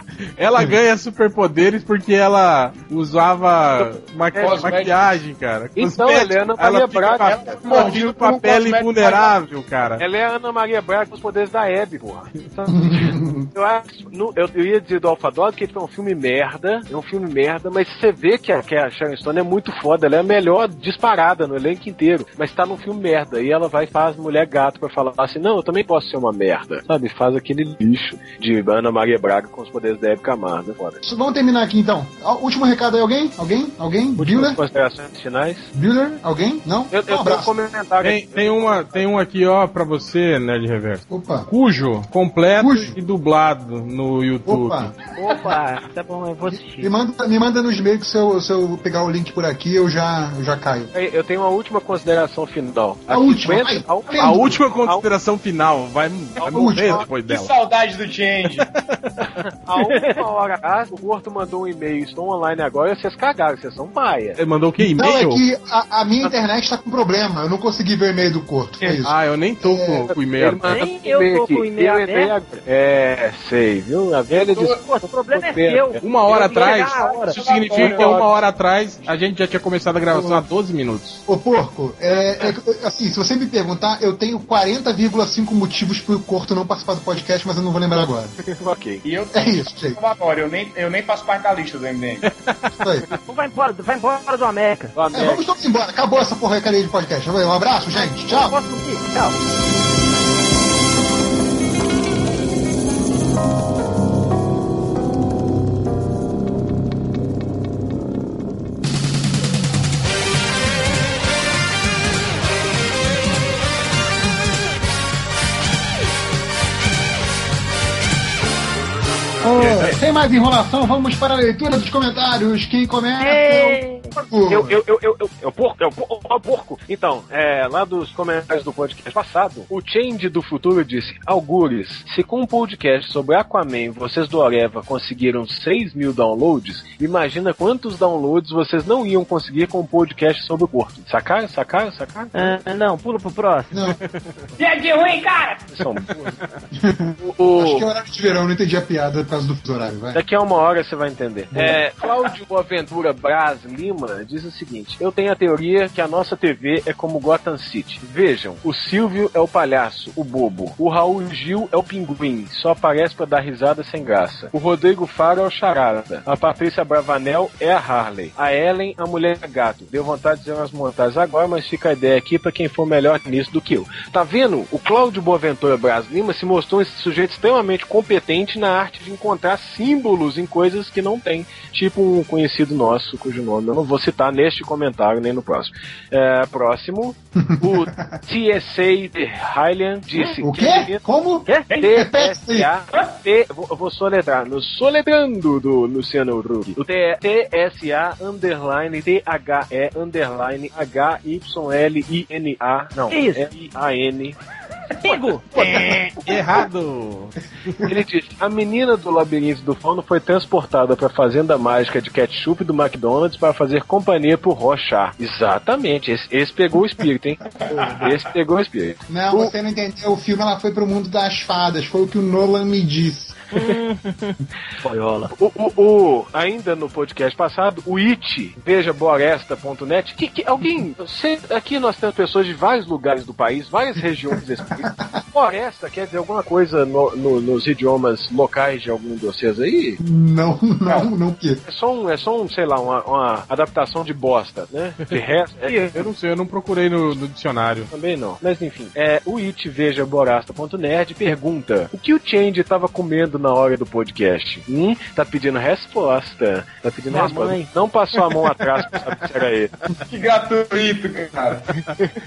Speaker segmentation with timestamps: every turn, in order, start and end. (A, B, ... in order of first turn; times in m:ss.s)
0:00.4-0:10.0 A
0:03.8-0:04.7 B
0:04.4-0:05.0 C
0:05.8-0:07.6 B
0:07.3-0:09.4 C
0:10.0-0:31.0 B
0:12.7-0:13.5 D
0:31.0-0:34.6 D
0:34.2-0:35.7 B
0:35.7-0:37.5 D
0:36.9-0:39.0 B
0:38.0-0:44.9 A
0:41.1-0:41.5 D
0:42.6-0:42.9 D
0:44.4-0:44.9 D
0:45.2-0:46.9 E
0:46.4-0:50.9 D
0:50.9-0:55.0 B
0:53.1-0:54.6 D
0:54.2-0:57.5 A
0:56.4-0:57.1 B
0:56.5-0:57.0 D
0:57.2-0:58.7 C
0:58.6-0:59.1 A
0:59.3-1:04.4 B
0:59.8-1:00.2 E
1:04.4-1:05.4 A
1:04.8-1:10.1 D
1:09.0-1:10.7 A
1:10.3-1:16.4 B
1:10.7-1:12.3 E
1:14.4-1:14.8 C
1:14.7-1:17.4 E
1:16.0-1:21.2 A
1:16.5-1:18.3 C
1:17.7-1:18.3 B
1:20.1-1:20.4 D
1:21.3-1:28.3 D
1:28.5-1:29.0 B
1:29.0-1:32.2 C
1:29.3-1:30.0 D
1:32.8-1:33.0 D
1:33.2-1:34.9 E
1:34.9-1:35.4 B
1:35.1-1:38.6 D
1:37.9-1:39.4 E
1:59.4-2:04.8 D
1:59.6-2:00.0 C
2:03.2-2:04.1 E
2:04.5-2:22.6 B
2:22.3-2:23.7 E
2:23.7-2:24.0 D
2:24.6-2:25.5 C
2:25.7-2:26.4 B
2:26.7-2:30.2 D
2:27.2-2:27.8 B
2:30.1-3:11.0 B
2:31.5-2:31.8 D
3:07.4-3:08.2 D
3:10.4-3:12.7 D
3:11.5-3:11.7 E
3:11.8-3:24.4 B
3:23.1-3:23.5 E
3:25.0-3:25.5 E
3:25.5-3:27.8 A
3:27.8-3:37.4 B
3:37.6-3:38.1 C
3:37.7-3:38.1 D
3:38.0-3:39.5 B
3:39.1-3:43.4 D
3:43.5-3:45.3 E
3:45.3-4:00.0 B
3:54.8-3:55.0 D
4:00.0-4:01.6 D
4:01.6-4:05.9 B
4:05.6-4:06.0 E
4:05.9-4:07.9 A
4:07.9-4:19.7 B
4:17.1-4:17.7 E
4:20.0-4:21.7 C